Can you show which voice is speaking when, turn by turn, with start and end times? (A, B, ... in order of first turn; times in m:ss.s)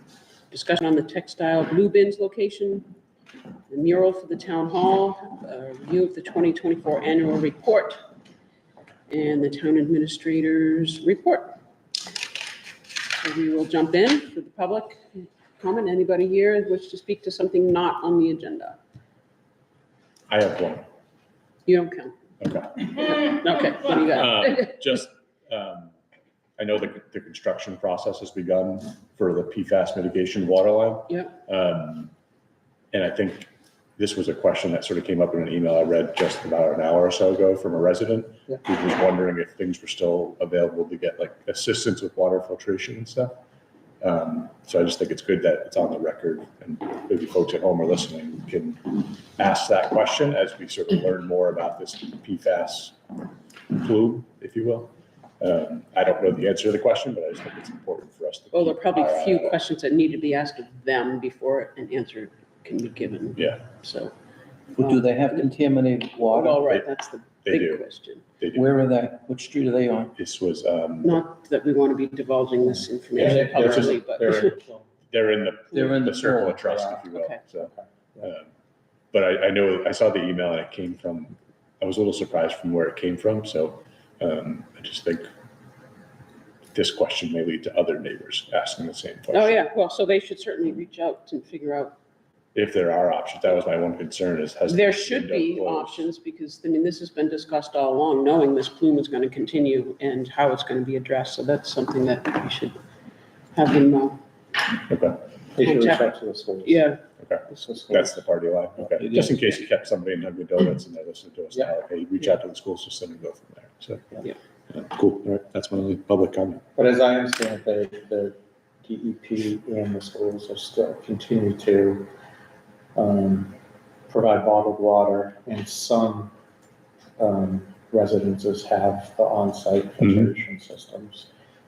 0:00.5-0:02.9 A
0:03.7-0:08.0 A
0:09.1-0:11.6 A
0:13.1-0:18.8 A
0:20.3-0:20.8 B
0:21.7-0:22.2 A
0:22.4-0:23.4 B
0:22.8-0:24.8 A
0:24.1-0:26.0 B
0:26.6-0:32.1 B
0:32.9-0:43.4 B
0:44.0-0:53.0 B
0:53.7-0:59.6 B
0:58.5-1:04.1 A
1:04.7-1:06.7 C
1:04.8-1:05.5 A
1:06.2-1:08.2 A
1:07.4-1:07.8 B
1:08.4-1:08.6 B
1:08.5-1:10.1 C
1:10.2-1:11.2 B
1:11.0-1:14.5 A
1:12.7-1:14.9 D
1:13.1-1:14.0 B
1:15.1-1:18.5 B
1:15.7-1:16.6 C
1:16.6-1:17.0 D
1:17.1-1:17.4 A
1:17.6-1:18.3 D
1:19.1-1:25.3 B
1:26.7-1:29.6 B
1:29.3-1:32.0 A
1:32.5-1:36.1 B
1:34.7-1:42.8 A
1:43.5-1:44.2 A
1:44.9-1:45.2 B
1:45.5-1:46.8 D
1:45.6-1:46.1 A
1:46.6-1:47.9 A
1:47.2-1:54.1 B
1:47.7-1:48.1 D
1:49.0-1:49.4 C
1:54.7-1:56.6 B
1:56.8-2:02.1 D
2:02.9-2:03.6 D
2:04.1-2:06.3 D
2:07.2-2:11.3 D
2:10.0-2:10.3 B